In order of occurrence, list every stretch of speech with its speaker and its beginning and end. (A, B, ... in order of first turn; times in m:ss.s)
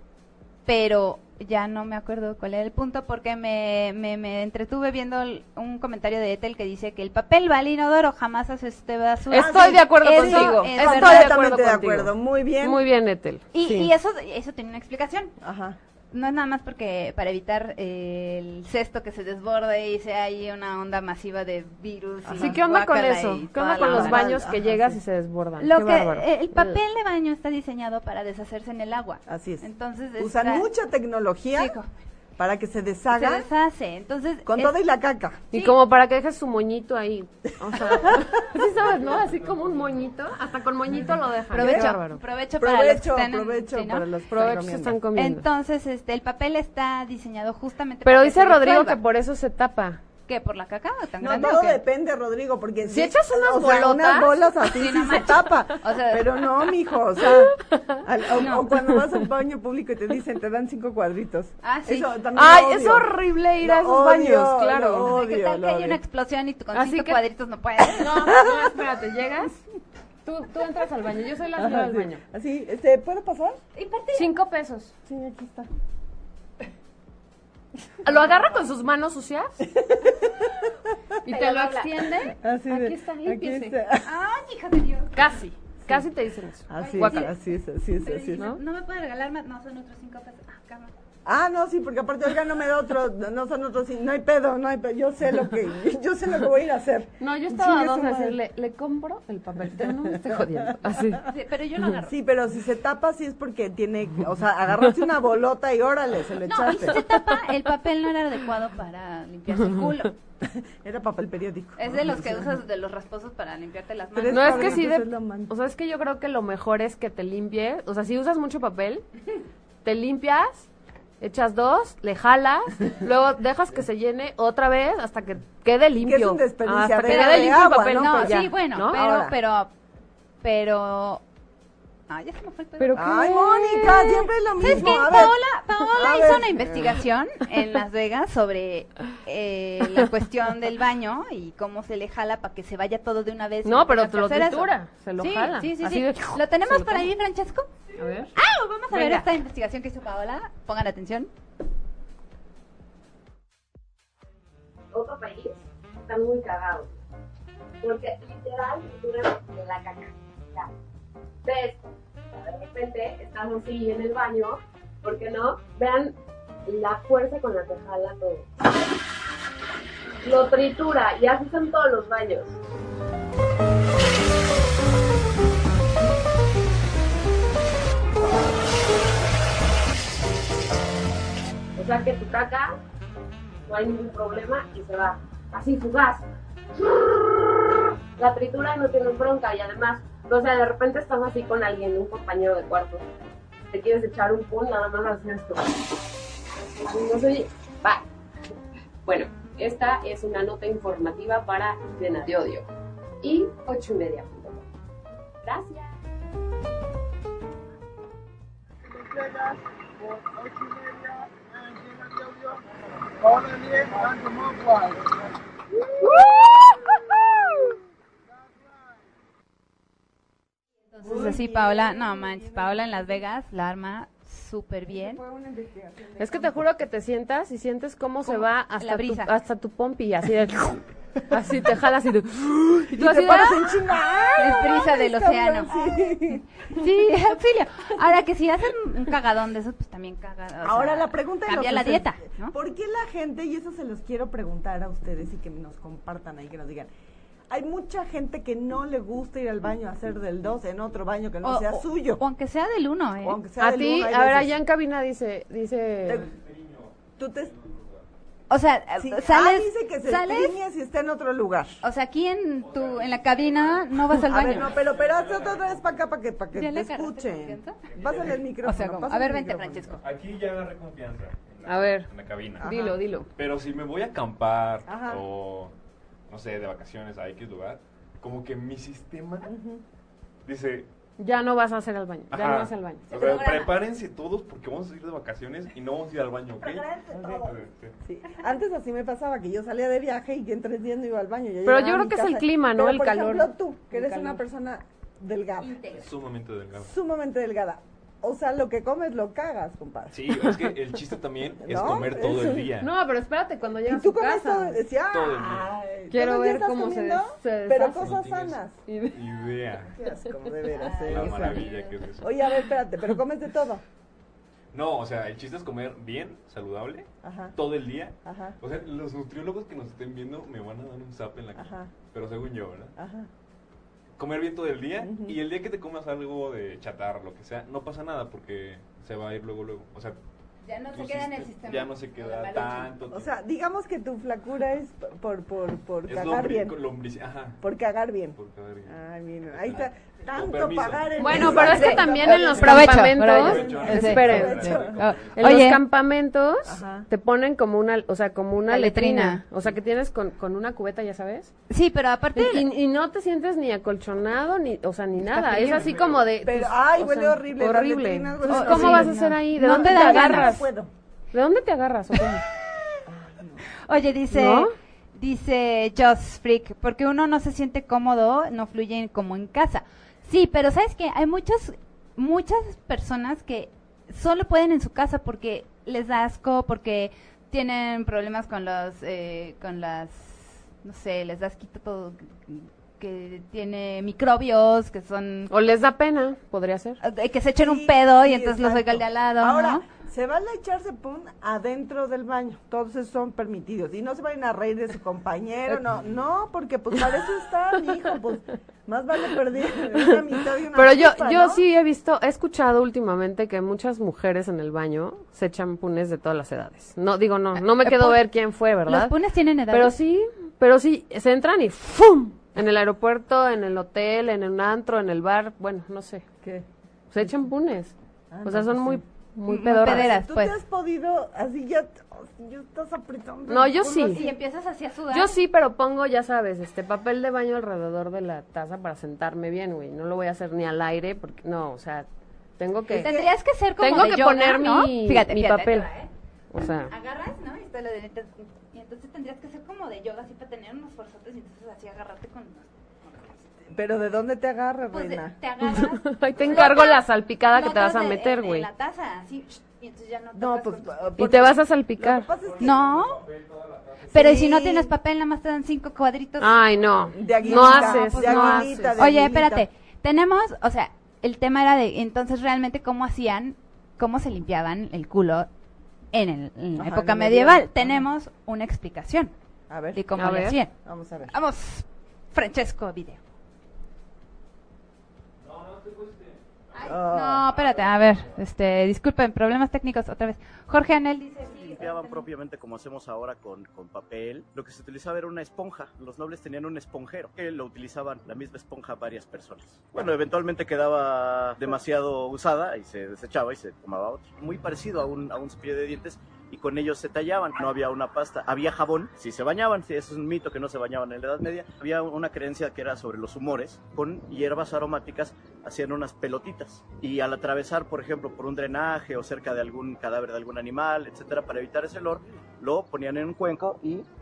0:00.6-0:11.4 A
0:09.3-0:13.9 B
0:09.3-0:12.8 C
0:13.5-0:15.3 A
0:15.4-0:15.8 C
0:16.1-0:24.3 A
0:22.2-0:22.6 C
0:22.4-0:26.8 B
0:23.8-0:25.0 C
0:25.6-0:30.7 A
0:29.3-0:29.7 C
0:30.2-0:31.7 C
0:31.5-0:31.9 A
0:32.4-0:33.5 C
0:33.1-0:34.8 A
0:34.4-0:35.4 C
0:35.5-0:35.8 A
0:35.5-0:42.2 B
0:37.9-0:38.2 C
0:38.8-0:40.0 D
0:41.5-0:44.1 A
0:41.5-0:42.0 C
0:42.6-0:45.0 C
0:44.3-0:45.4 B
0:45.1-0:49.0 A
0:48.0-0:50.0 B
0:50.3-0:51.8 A
0:51.2-1:06.0 C
0:52.9-0:54.3 B
0:54.7-0:56.4 A
0:57.2-0:58.0 B
0:58.4-0:58.7 A
1:01.6-1:02.2 A
1:02.3-1:05.1 B
1:05.0-1:08.4 A
1:06.7-1:07.2 B
1:07.9-1:09.6 B
1:08.2-1:08.8 C
1:10.2-1:12.2 B
1:11.6-1:13.6 C
1:13.7-1:14.3 A
1:14.1-1:14.9 B
1:15.0-1:15.7 C
1:18.0-1:19.6 B
1:19.6-1:20.7 C
1:21.2-1:23.8 B
1:21.3-1:22.3 A
1:22.3-1:24.1 C
1:24.0-1:25.1 A
1:25.1-1:27.3 B
1:26.7-1:28.5 C
1:26.8-1:30.9 A
1:31.2-1:38.4 C
1:37.2-1:41.3 B
1:39.8-1:41.0 C
1:41.2-1:42.1 A
1:42.0-1:47.0 C
1:46.4-1:50.1 A
1:50.4-1:52.6 C
1:51.8-1:54.8 A
1:54.1-1:55.5 C
1:54.3-1:59.0 B
1:59.8-2:00.7 B
2:01.2-2:09.0 B
2:06.0-2:09.4 C
2:07.0-2:09.7 A
2:10.4-2:11.2 A
2:12.1-2:13.2 A
2:12.8-2:15.3 B
2:12.9-2:15.4 C
2:14.6-2:27.7 A
2:15.9-2:17.0 C
2:23.6-2:27.1 B
2:28.0-2:28.3 B
2:28.3-2:31.3 A
2:28.9-2:29.3 B
2:34.9-2:36.9 E
2:37.8-2:40.7 E
2:41.4-2:46.1 E
2:46.6-2:48.5 E
2:50.2-2:52.6 E
3:01.8-3:02.8 E
3:03.7-3:06.2 E
3:06.8-3:07.2 E
3:08.2-3:13.0 E
3:13.7-3:15.8 E
3:16.8-3:18.0 E
3:19.0-3:22.7 E
3:23.2-3:24.6 E
3:25.4-3:25.9 E
3:40.9-3:45.2 A
3:41.0-3:43.0 C
3:44.9-3:46.6 C
3:46.2-3:53.6 B
3:48.2-3:49.3 A
3:52.9-3:56.4 C
3:53.1-3:53.5 A
3:54.4-3:55.7 A
3:56.7-4:02.5 A
4:00.6-4:06.9 C
4:07.5-4:12.2 C
4:11.4-4:13.4 A
4:13.2-4:14.5 C
4:13.6-4:16.2 B
4:16.1-4:18.0 D
4:17.2-4:17.5 C
4:18.5-4:20.6 A
4:19.0-4:21.8 C
4:21.8-4:24.7 A
4:22.6-4:26.1 D
4:24.2-4:30.0 C
4:26.5-4:27.8 A
4:27.9-4:28.4 D
4:28.6-4:30.0 A
4:30.0-4:32.8 D
4:31.6-4:33.3 B
4:32.6-4:33.0 C
4:33.4-4:35.7 D
4:34.8-4:35.2 C
4:36.3-4:39.5 D
4:39.4-4:39.8 C
4:40.4-4:40.9 D
4:41.2-4:43.3 B
4:42.3-4:47.9 D
4:43.1-4:43.8 A
4:46.6-4:47.5 A
4:47.1-4:47.5 C
4:48.0-4:55.8 C
4:51.6-4:54.4 B
4:55.6-4:56.0 A
4:55.9-4:56.9 D
4:56.8-5:00.3 C
5:00.1-5:02.9 D
5:01.6-5:02.8 C
5:02.8-5:04.8 B
5:03.8-5:08.8 C
5:05.1-5:05.7 D
5:06.1-5:08.2 B
5:08.0-5:10.0 D
5:08.9-5:09.2 B
5:09.9-5:13.8 C
5:10.8-5:12.0 A
5:11.1-5:12.3 D
5:14.7-5:22.9 D
5:17.2-5:17.5 C
5:18.2-5:18.6 C
5:21.6-5:21.9 C
5:23.0-5:23.3 C
5:24.2-5:30.2 D
5:25.0-5:25.4 C
5:30.6-5:32.9 A
5:30.9-5:33.3 D
5:33.1-5:36.8 C
5:36.1-5:37.6 D
5:37.6-5:45.0 C
5:38.3-5:39.0 D
5:39.5-5:45.7 D
5:41.2-5:44.8 B
5:41.5-5:45.8 A
5:45.3-5:51.5 B
5:46.6-5:47.1 C
5:48.7-5:49.4 A
5:51.7-5:52.7 A
5:52.3-6:00.6 B
5:55.3-5:55.9 A
5:55.6-5:55.8 C
5:55.6-5:56.3 D
5:56.4-6:00.9 C
5:58.5-6:00.6 A
6:01.3-6:02.4 B
6:03.1-6:03.6 C
6:03.8-6:25.5 A
6:04.3-6:04.7 B
6:25.5-6:27.0 B
6:27.0-6:29.8 A
6:27.6-6:41.6 C
6:40.7-6:49.1 B
6:47.5-6:48.2 A
6:48.8-6:50.0 A
6:49.7-6:56.2 B
6:57.1-6:57.9 B
6:58.3-7:04.3 C
6:58.4-7:00.1 B
6:59.6-7:00.6 A
7:03.5-7:04.2 B
7:03.9-7:05.4 A
7:05.1-7:12.1 B
7:12.6-7:13.2 B
7:12.9-7:16.1 A
7:12.9-7:13.2 C
7:13.8-7:15.9 B
7:16.5-7:16.9 B
7:16.9-7:23.3 A
7:23.7-7:25.4 C
7:24.9-7:31.2 A
7:25.6-7:28.7 B
7:30.3-7:32.8 C
7:31.2-7:32.3 B
7:32.4-7:34.2 D
7:32.6-7:33.2 A
7:34.1-7:34.9 C
7:34.1-7:36.6 A
7:36.4-7:39.0 B
7:37.1-7:39.7 C
7:37.4-7:45.5 A
7:46.1-7:49.3 A
7:46.8-7:48.0 C
7:49.7-7:50.0 C
7:49.9-7:50.7 A
7:50.2-7:50.6 B
7:50.8-7:51.3 C
7:51.3-7:53.2 A
7:55.4-7:56.9 D
7:56.7-8:02.2 A
7:56.8-7:57.4 C
7:57.5-7:58.3 D
8:01.5-8:34.0 F